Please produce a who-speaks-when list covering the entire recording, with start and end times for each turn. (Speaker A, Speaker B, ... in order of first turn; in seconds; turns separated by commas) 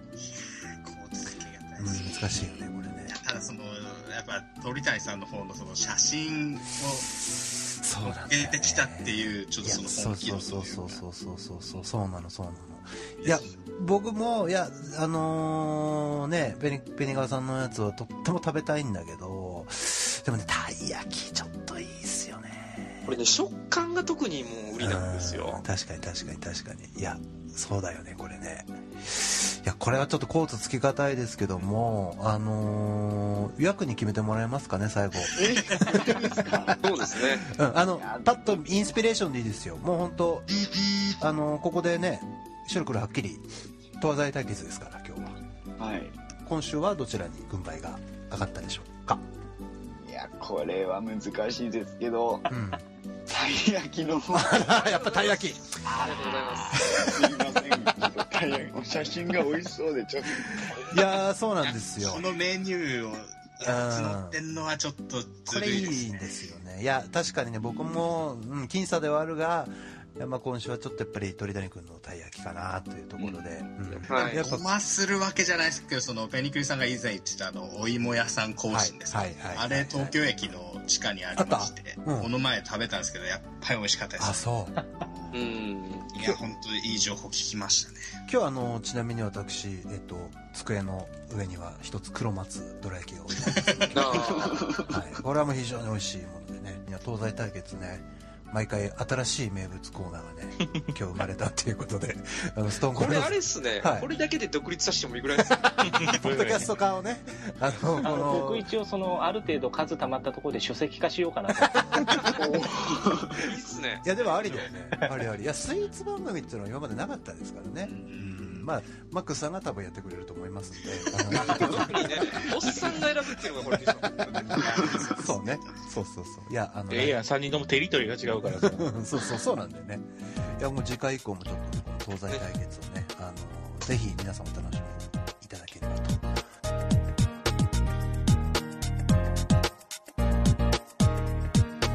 Speaker A: 0.2-2.5, Speaker B: 1.8-3.1, Speaker A: 3.0-7.2, Speaker B: 7.4-23.1, Speaker A: 8.0-11.0, Speaker A: 13.2-13.5, Speaker C: 23.1-25.6, Speaker B: 24.8-40.5, Speaker D: 35.3-36.8, Speaker C: 36.8-37.5, Speaker D: 37.8-38.4, Speaker B: 41.2-43.5, Speaker B: 44.0-45.4, Speaker D: 45.8-46.2, Speaker B: 46.4-49.2, Speaker D: 50.0-52.5, Speaker B: 52.5-52.8, Speaker D: 53.3-54.6, Speaker B: 54.3-56.1, Speaker C: 54.6-57.1, Speaker D: 56.1-60.7, Speaker B: 56.7-57.0, Speaker B: 60.6-62.3, Speaker A: 61.9-66.1, Speaker B: 63.6-64.4, Speaker B: 65.5-74.7, Speaker C: 74.0-74.4, Speaker A: 74.1-84.4, Speaker B: 78.7-80.2, Speaker B: 81.3-82.3, Speaker B: 84.2-84.8, Speaker D: 85.0-85.5, Speaker C: 85.3-86.1, Speaker A: 86.1-88.0, Speaker B: 88.3-104.1, Speaker A: 93.5-94.1, Speaker C: 93.9-94.8, Speaker D: 94.4-94.8, Speaker C: 102.9-106.0, Speaker B: 105.8-108.7, Speaker E: 105.9-106.7, Speaker F: 108.0-112.2, Speaker D: 112.3-113.4, Speaker C: 113.4-114.6, Speaker B: 114.0-122.5, Speaker A: 117.8-118.7, Speaker C: 121.4-124.4, Speaker B: 124.3-127.2, Speaker A: 124.4-125.5, Speaker E: 126.9-128.9, Speaker B: 128.5-136.3, Speaker C: 132.3-132.6